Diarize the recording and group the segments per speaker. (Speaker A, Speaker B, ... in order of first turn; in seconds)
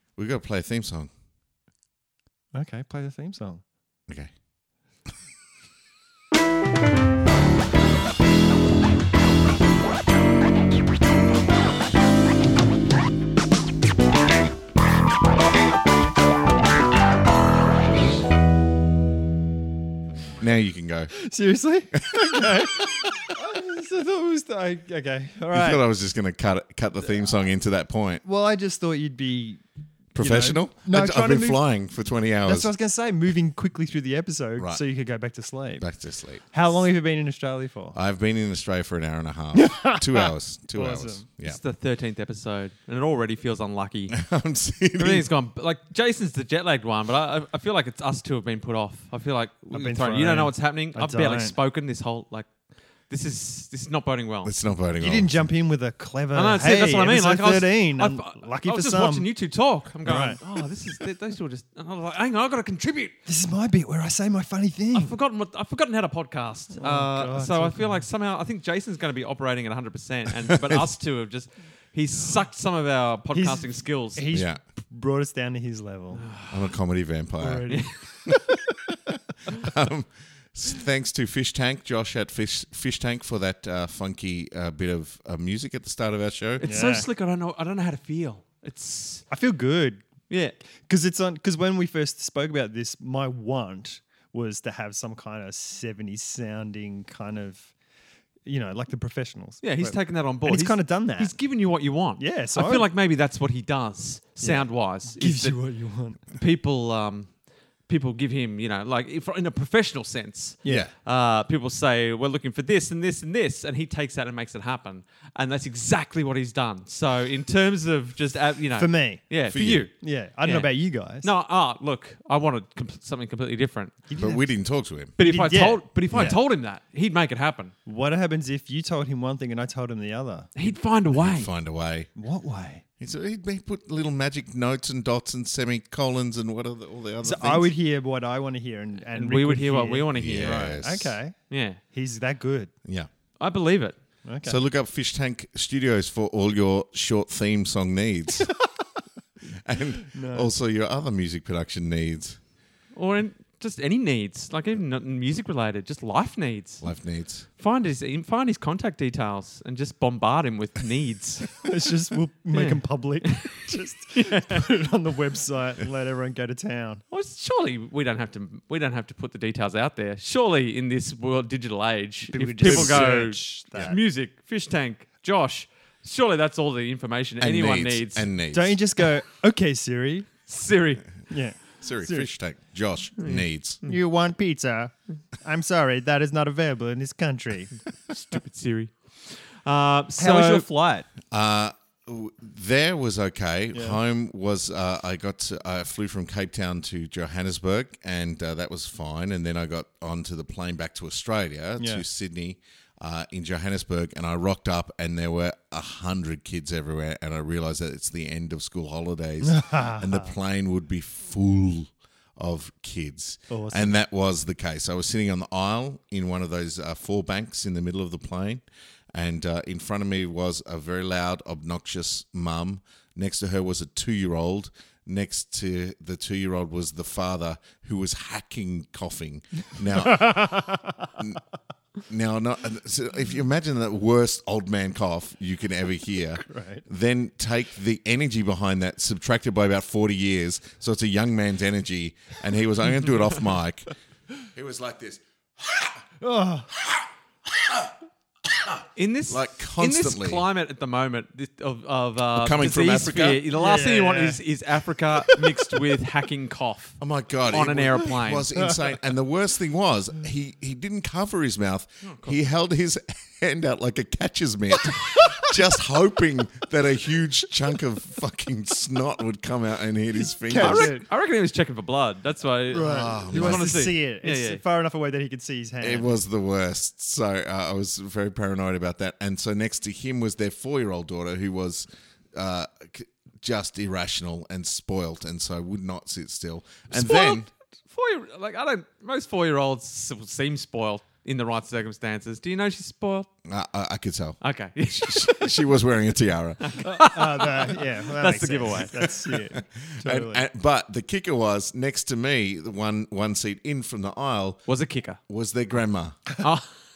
Speaker A: 0.2-1.1, 20.4-21.1, 22.1-22.4, 25.5-28.2, 30.1-32.7, 35.8-36.4, 37.9-41.6, 44.1-45.3, 54.4-55.5, 70.4-70.8, 74.3-74.6, 76.5-77.7, 79.5-86.6, 110.7-110.9, 119.5-119.8, 124.2-125.1, 126.1-126.4, 131.1-132.1, 133.0-137.7, 140.1-141.2, 144.4-148.5, 149.6-152.4, 156.8-157.5, 172.6-173.1, 177.4-178.8, 181.8-183.8, 191.3-231.4, 232.1-243.9, 244.5-246.0, 246.8-247.9, 248.5-250.4, 252.3-253.4, 257.0-270.9, 272.8-273.8, 275.8-287.5, 293.4-296.8, 299.0-304.6, 305.3-306.2
Speaker B: 2.5-3.6, 21.2-25.8, 28.2-29.6, 30.2-31.6, 32.4-35.8, 36.5-38.0, 39.5-41.2, 49.7-51.5, 55.0-59.3, 60.0-60.4, 63.3-65.1, 66.8-68.0, 73.3-76.3, 77.4-78.5, 86.6-87.0, 89.3-90.1, 90.8-97.7, 98.4-101.3, 102.2-102.8, 104.4-106.2, 118.8-119.2, 120.0-121.3, 124.1-124.5, 125.2-125.8, 127.8-130.5, 132.2-132.8, 137.2-141.3, 141.9-142.7, 144.2-144.6, 150.1-150.5, 161.6-167.0, 172.3-174.0, 178.5-180.3, 181.3-182.3, 183.8-187.7, 190.2-191.1, 193.7-194.0, 201.8-202.0, 209.4-210.3, 213.5-213.9, 230.0-231.0, 236.5-236.8, 246.2-246.7, 253.5-254.4, 270.4-271.0, 272.7-276.2, 296.8-300.4
Speaker C: 41.4-44.1, 45.0-52.5, 53.1-54.5, 56.3-63.1, 64.9-74.2, 76.2-76.6, 86.6-89.2, 90.3-90.5, 99.6-105.6, 106.3-107.3, 107.9-124.0, 125.2-127.7, 130.6-131.5, 139.1-140.8, 141.5-141.8, 143.4-143.9, 152.9-156.8, 157.6-161.5, 162.5-163.6, 164.1-164.6, 167.1-178.3, 180.5-181.0, 183.2-184.0, 188.1-190.7, 248.9-258.5, 262.0-262.4, 270.5-274.6, 286.9-293.3, 294.4-295.6, 296.6-298.9, 304.7-305.2, 306.4-306.7